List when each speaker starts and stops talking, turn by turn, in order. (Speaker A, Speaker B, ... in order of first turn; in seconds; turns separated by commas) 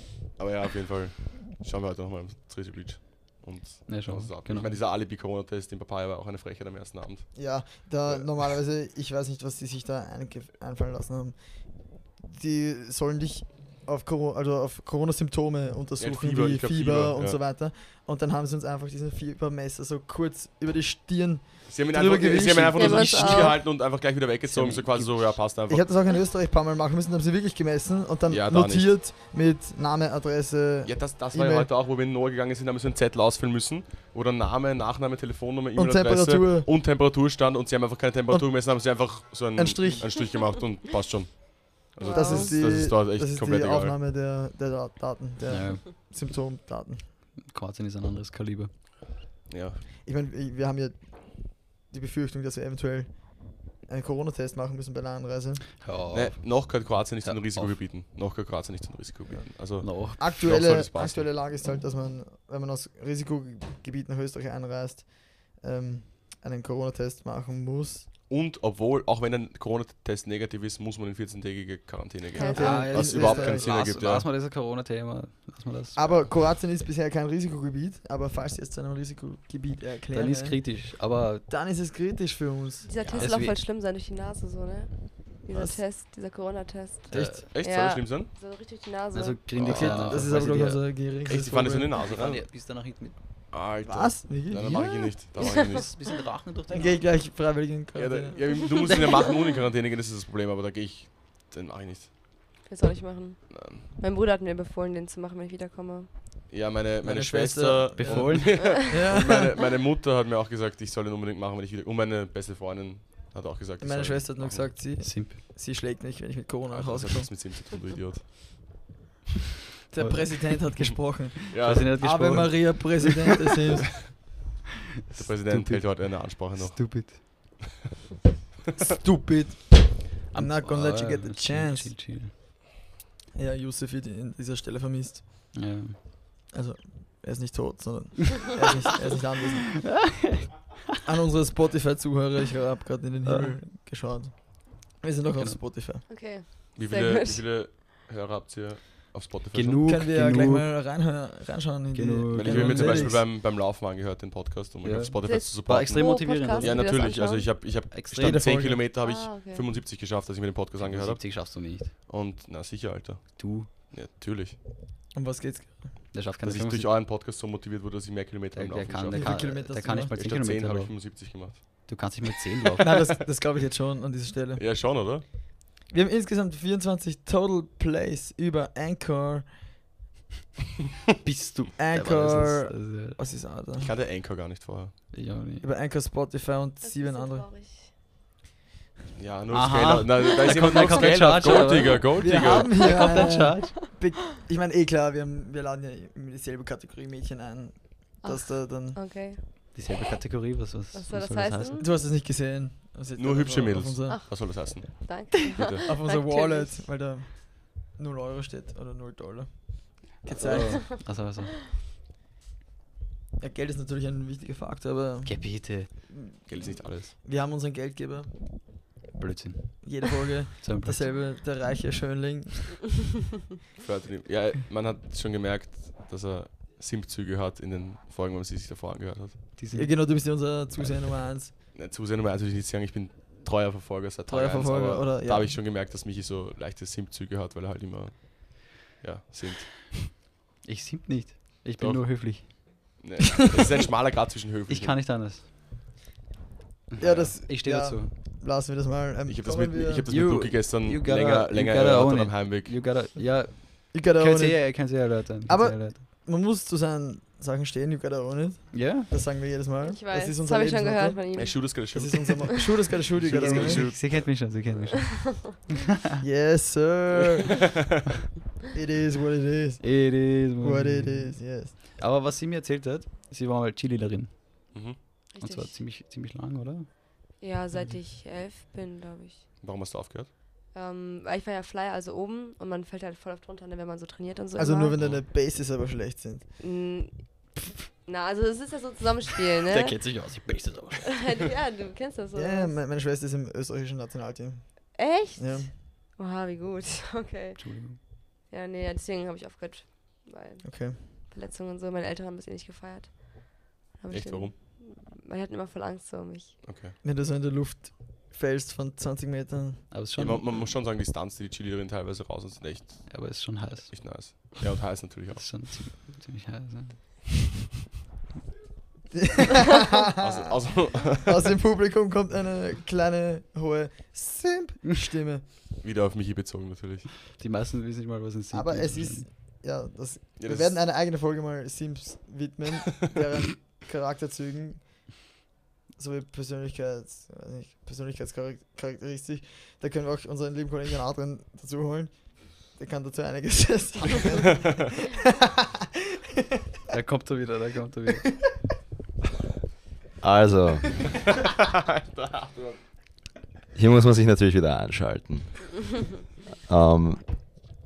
Speaker A: 0.4-8.5, Speaker B: 3.9-4.8, Speaker C: 7.3-23.6, Speaker A: 16.0-17.4, Speaker A: 21.7-25.9, Speaker D: 22.7-23.6, Speaker B: 24.5-25.3, Speaker C: 25.7-31.7, Speaker A: 28.3-29.0, Speaker A: 30.8-44.0, Speaker C: 35.8-36.7, Speaker C: 38.3-39.0, Speaker C: 39.5-40.2, Speaker D: 42.0-42.7, Speaker C: 42.0-47.1, Speaker B: 45.5-45.8, Speaker B: 47.4-48.7, Speaker A: 49.5-49.8, Speaker C: 50.0-55.8, Speaker B: 55.8-57.8, Speaker A: 56.1-61.3, Speaker B: 59.8-60.2, Speaker C: 60.2-68.1, Speaker A: 68.3-74.2, Speaker D: 72.3-72.8, Speaker C: 72.4-73.7, Speaker B: 72.5-76.3, Speaker C: 75.9-80.9, Speaker B: 80.1-81.5, Speaker C: 81.5-82.9, Speaker D: 82.8-89.6, Speaker A: 83.0-83.3, Speaker B: 83.1-83.6, Speaker C: 85.5-85.8, Speaker B: 87.1-87.4, Speaker A: 87.1-88.3, Speaker B: 89.1-90.9, Speaker A: 89.5-90.3, Speaker C: 89.6-91.9, Speaker A: 91.2-92.4, Speaker B: 92.0-93.2, Speaker A: 93.5-95.9, Speaker C: 93.8-95.1, Speaker D: 94.7-95.9, Speaker B: 95.5-97.0, Speaker C: 96.7-98.5, Speaker A: 97.9-102.1, Speaker D: 98.5-99.0, Speaker D: 102.6-106.5, Speaker A: 103.5-103.9, Speaker A: 106.5-114.8, Speaker C: 107.0-109.5, Speaker B: 108.0-108.8, Speaker D: 108.6-109.0, Speaker C: 113.8-117.3, Speaker B: 115.0-115.4, Speaker A: 116.7-118.3, Speaker C: 119.9-124.2, Speaker B: 120.0-120.7, Speaker A: 121.5-122.0, Speaker B: 121.6-123.1, Speaker B: 125.1-127.2, Speaker A: 125.1-127.4, Speaker C: 128.8-132.0, Speaker B: 130.3-132.3, Speaker C: 133.3-135.5, Speaker B: 135.5-136.0, Speaker C: 136.5-139.9, Speaker B: 139.8-140.4, Speaker C: 141.0-146.1, Speaker B: 143.2-143.6, Speaker D: 146.1-147.5, Speaker A: 146.8-149.9, Speaker B: 149.5-150.7, Speaker C: 149.8-153.2, Speaker B: 151.9-153.2, Speaker A: 152.3-164.6, Speaker B: 154.8-156.8, Speaker D: 155.2-157.7, Speaker B: 157.9-158.4, Speaker C: 158.1-158.9, Speaker D: 159.0-159.7, Speaker B: 160.8-161.9, Speaker B: 163.4-163.7, Speaker C: 165.1-166.1, Speaker B: 166.1-166.9, Speaker A: 166.4-169.6, Speaker B: 168.5-172.9, Speaker C: 169.1-170.1, Speaker A: 170.1-172.1, Speaker C: 172.8-174.6, Speaker A: 174.6-175.2, Speaker C: 175.9-179.7, Speaker B: 181.2-183.2, Speaker C: 181.8-183.9, Speaker A: 183.8-185.0, Speaker B: 185.1-185.7, Speaker C: 185.6-187.5, Speaker D: 186.8-187.9, Speaker A: 189.2-192.8, Speaker B: 189.5-193.8, Speaker C: 192.2-199.0, Speaker D: 192.8-193.9, Speaker D: 198.2-199.4, Speaker B: 199.7-201.8, Speaker D: 200.9-201.9, Speaker C: 201.8-204.2, Speaker A: 203.2-205.8, Speaker D: 204.1-206.9, Speaker C: 205.8-210.8, Speaker B: 210.3-211.6, Speaker D: 210.7-211.0, Speaker C: 213.4-218.8, Speaker B: 215.2-216.1, Speaker A: 216.5-217.1, Speaker B: 219.2-221.1, Speaker C: 219.8-222.8, Speaker A: 223.8-229.5, Speaker B: 229.6-230.0, Speaker C: 229.7-231.5, Speaker A: 231.7-240.1, Speaker C: 234.3-235.6, Speaker B: 240.6-242.7, Speaker A: 241.8-245.0, Speaker B: 244.7-245.5, Speaker B: 246.9-248.1, Speaker C: 247.0-250.1, Speaker A: 247.0-247.3, Speaker A: 249.2-252.8, Speaker B: 250.1-256.0, Speaker C: 253.9-263.9, Speaker B: 258.7-259.1, Speaker D: 259.8-261.8, Speaker A: 261.3-264.3, Speaker B: 263.2-265.6, Speaker D: 265.1-265.4, Speaker C: 266.2-267.7, Speaker C: 268.7-271.7, Speaker B: 269.8-274.9, Speaker A: 274.7-275.0, Speaker D: 275.3-275.8, Speaker B: 275.4-276.9, Speaker D: 277.4-279.4, Speaker A: 279.6-280.3, Speaker D: 280.7-284.9, Speaker C: 284.6-286.5, Speaker A: 285.0-285.2, Speaker D: 286.6-290.2, Speaker B: 289.7-291.2, Speaker D: 291.0-292.8, Speaker C: 292.3-295.8, Speaker D: 294.9-306.7, Speaker B: 297.6-298.0, Speaker C: 300.6-301.2, Speaker A: 304.1-304.5, Speaker A: 306.6-307.0, Speaker C: 307.0-309.9, Speaker B: 309.9-310.5, Speaker A: 310.1-315.6, Speaker B: 313.1-314.1, Speaker B: 315.3-317.3, Speaker C: 319.1-320.3, Speaker A: 320.2-321.5, Speaker C: 321.2-325.4, Speaker A: 325.8-327.1, Speaker B: 327.3-329.2, Speaker C: 328.5-335.3, Speaker A: 330.4-330.8, Speaker C: 335.9-345.2, Speaker B: 346.9-348.3, Speaker E: 350.2-351.1, Speaker A: 352.4-352.7, Speaker E: 353.7-356.1, Speaker E: 356.7-357.2